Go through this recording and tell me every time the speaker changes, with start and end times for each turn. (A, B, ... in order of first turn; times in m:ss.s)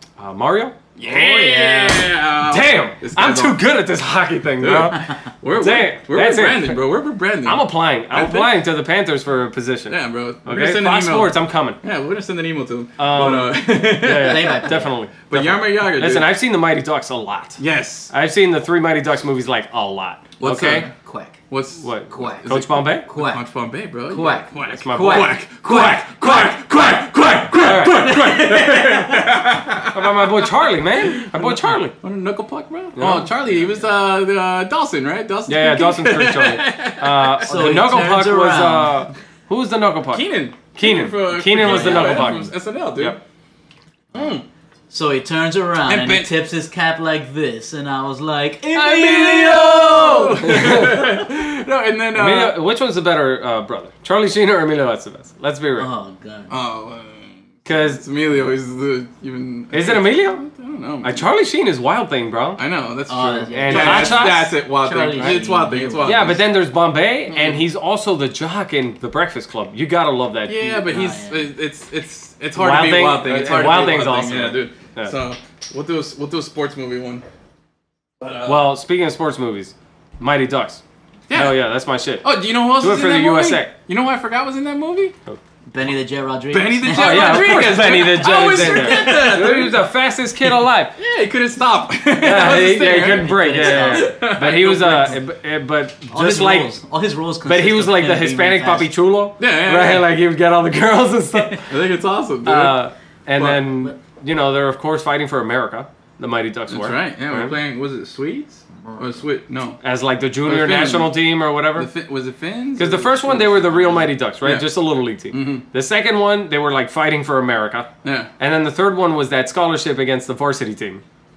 0:00.2-0:00.9 A
0:01.0-0:03.6 B
0:01.0-0:02.1 C
0:02.5-0:06.8 A
0:04.6-0:08.6 B
0:07.4-0:11.8 A
0:09.9-0:14.7 B
0:13.0-0:20.9 A
0:14.0-0:15.0 C
0:15.3-0:16.3 B
0:17.6-0:18.1 B
0:20.4-0:20.9 B
0:20.5-0:21.4 C
0:21.5-0:30.3 B
0:21.8-0:23.1 A
0:22.1-0:23.4 C
0:24.1-0:26.4 C
0:24.7-0:26.6 A
0:27.5-0:28.5 A
0:27.8-0:29.4 C
0:29.9-0:31.9 A
0:31.1-0:37.9 B
0:33.0-0:33.3 A
0:33.5-0:33.9 C
0:35.5-0:43.2 A
0:37.4-0:39.0 C
0:40.1-0:43.2 B
0:41.6-0:42.3 C
0:44.1-0:44.4 B
0:44.9-0:50.7 C
0:45.9-0:46.3 B
0:48.7-0:52.6 B
0:50.4-0:51.1 A
0:52.1-0:55.9 A
0:55.8-0:56.6 C
0:56.5-1:01.3 B
0:57.7-0:58.0 A
0:59.7-1:00.4 A
1:01.0-1:02.6 A
1:02.6-1:06.4 B
1:03.1-1:06.3 C
1:03.2-1:04.5 A
1:06.0-1:10.6 A
1:07.3-1:07.6 B
1:10.5-1:17.2 B
1:10.6-1:11.5 C
1:12.6-1:15.1 A
1:18.2-1:18.6 B
1:18.4-1:20.8 A
1:21.3-1:21.6 B
1:21.3-1:23.7 A
1:22.2-1:25.1 B
1:25.7-1:28.0 C
1:26.5-1:29.9 B
1:26.9-1:31.0 A
1:30.4-1:35.2 B
1:32.2-1:36.8 A
1:32.9-1:34.1 C
1:36.1-1:38.9 C
1:37.4-1:41.7 A
1:39.4-1:40.1 B
1:41.6-1:42.8 B
1:42.4-1:47.6 A
1:43.4-1:43.6 B
1:46.7-1:49.8 B
1:49.8-1:51.9 A
1:50.4-1:51.2 B
1:51.7-1:54.7 B
1:52.8-2:01.0 A
1:55.3-1:55.6 B
1:58.0-1:58.3 B